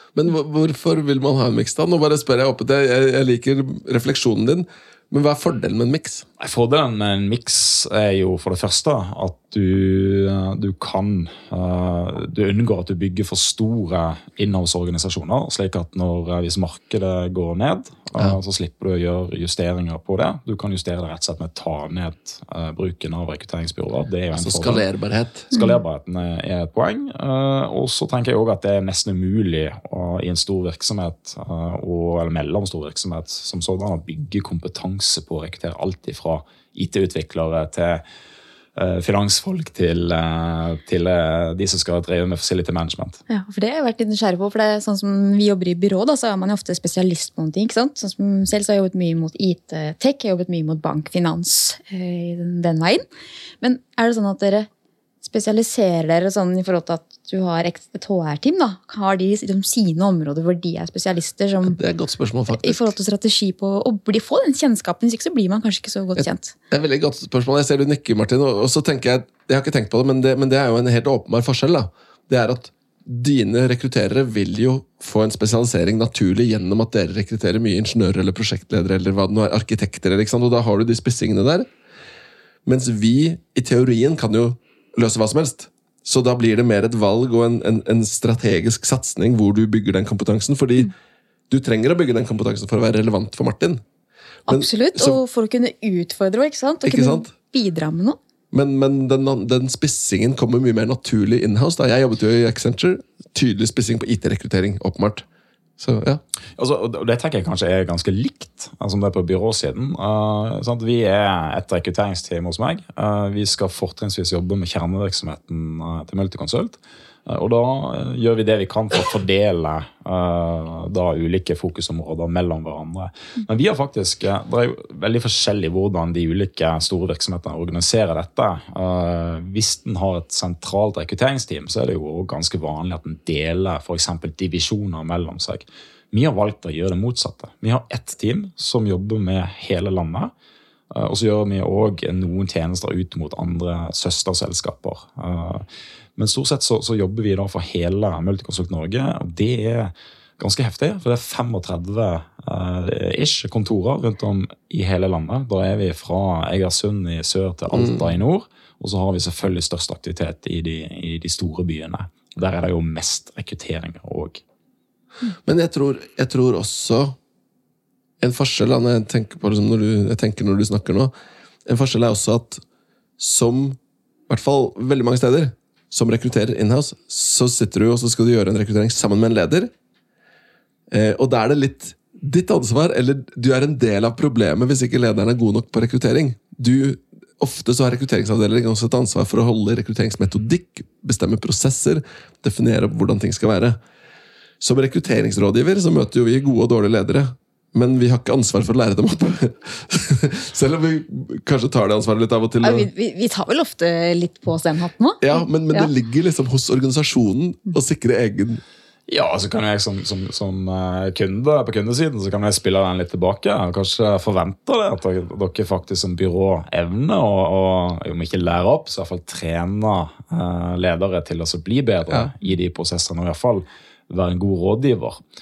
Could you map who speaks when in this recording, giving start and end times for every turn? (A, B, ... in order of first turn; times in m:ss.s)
0:00.2-0:06.2 A
0:06.4-0:24.8 B
0:24.3-0:25.5 A
0:25.5-0:38.0 B
0:38.8-0:43.2 B
0:43.3-0:53.0 C
0:53.6-0:54.7 C
0:55.2-1:01.8 C
1:01.6-1:02.9 A
1:02.5-1:06.5 C
1:06.2-1:21.7 A
1:22.6-1:30.9 A
1:31.5-1:33.8 A
1:34.5-1:38.2 C
1:34.5-1:35.2 A
1:36.8-1:37.3 A
1:38.5-1:45.3 A
1:45.8-1:46.2 A
1:46.6-2:20.3 B
2:20.9-2:25.6 B
2:26.2-2:44.4 B
2:37.7-2:38.1 A
2:45.4-2:47.2 A
2:48.2-2:51.1 A
2:51.7-2:52.6 A
2:53.2-2:59.7 A
3:00.9-3:13.8 A
3:14.6-3:22.9 A
3:22.6-3:25.9 C
3:25.2-3:28.6 A
3:29.1-3:45.2 B